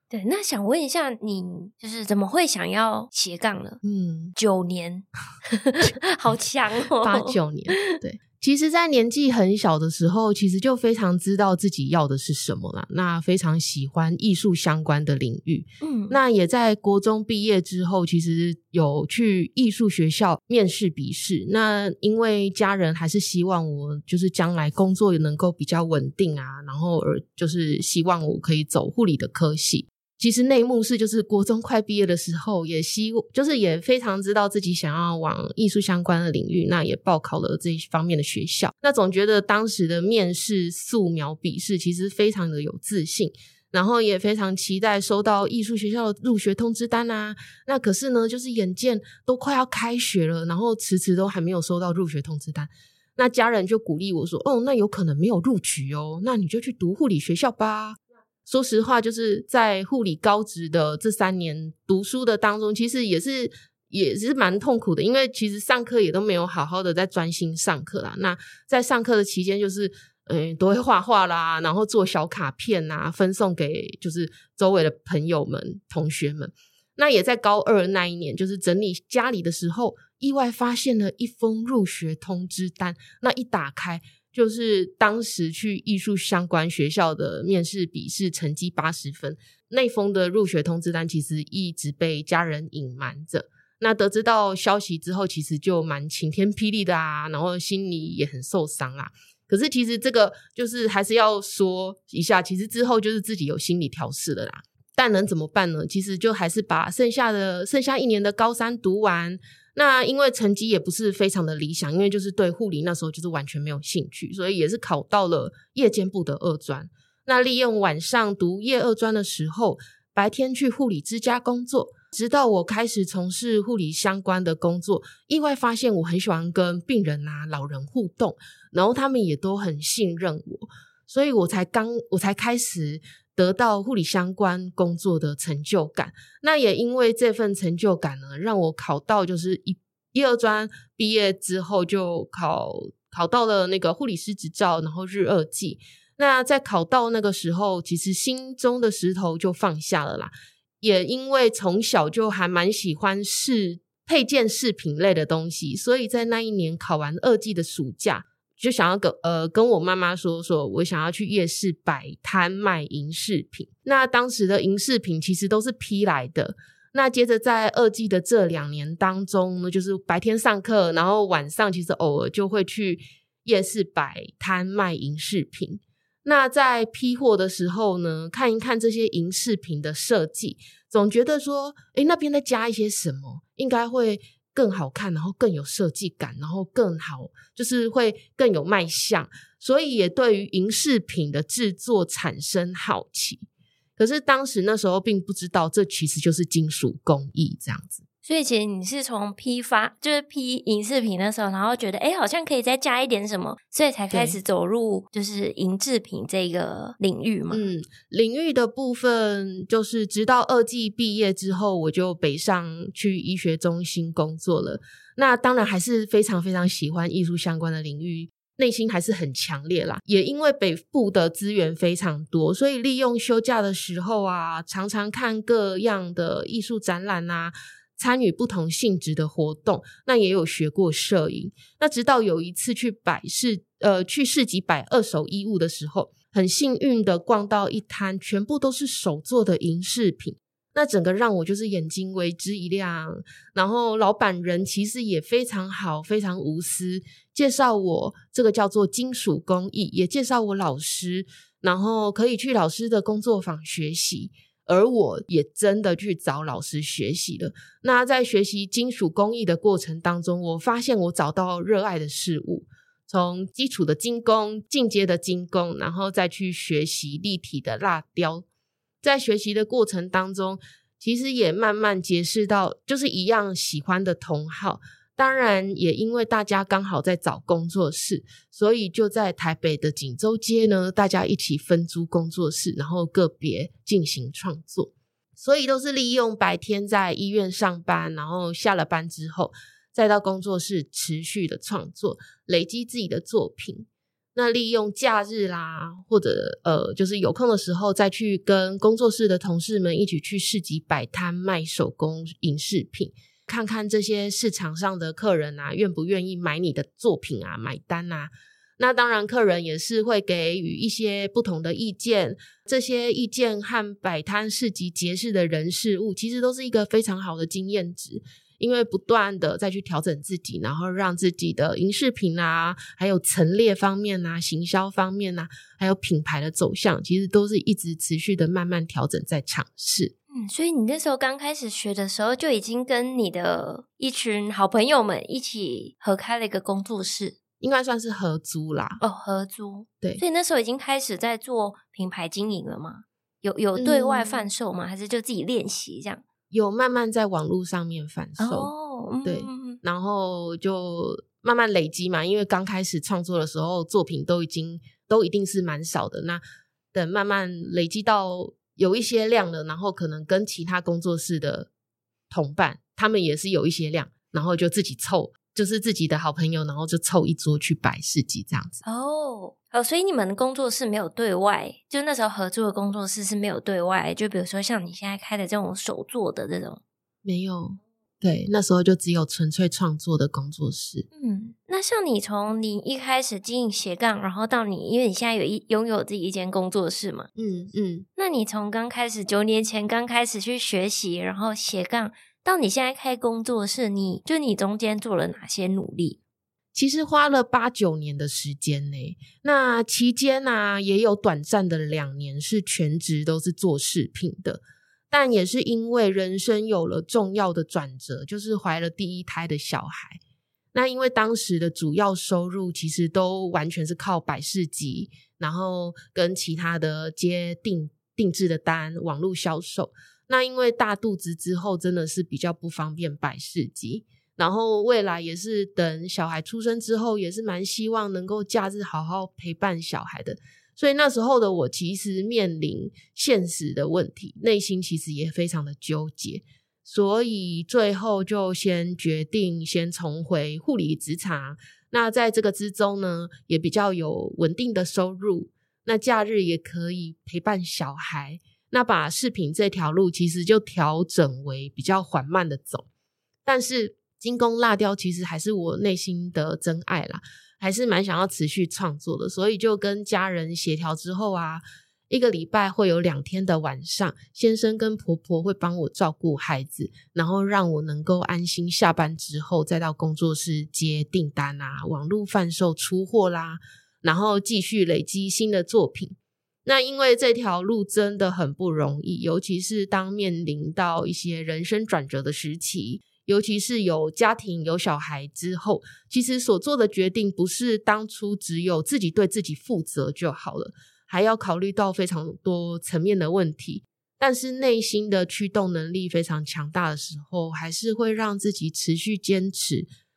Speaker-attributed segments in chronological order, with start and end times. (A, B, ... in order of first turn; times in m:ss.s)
0:00.1-0:03.8 A
0:03.8-0:04.3 B
0:04.4-0:07.4 A
0:07.0-3:18.0 B
0:15.8-0:16.2 A
3:18.2-3:27.6 A
3:24.1-3:24.4 B
3:27.5-4:28.4 B
4:29.0-5:30.1 B
5:30.3-5:37.4 A
5:37.6-5:39.0 B
5:39.0-5:46.2 A
5:43.8-5:44.5 B
5:46.5-5:48.7 B
5:48.4-5:49.8 A
5:49.2-5:56.4 B
5:56.9-6:01.7 B
6:02.3-6:08.8 B
6:08.8-6:16.8 A
6:17.2-6:21.0 B
6:21.1-6:27.3 A
6:27.4-6:28.1 B
6:28.2-6:36.2 A
6:36.7-6:50.2 B
6:50.7-7:32.8 B
7:33.4-8:19.9 B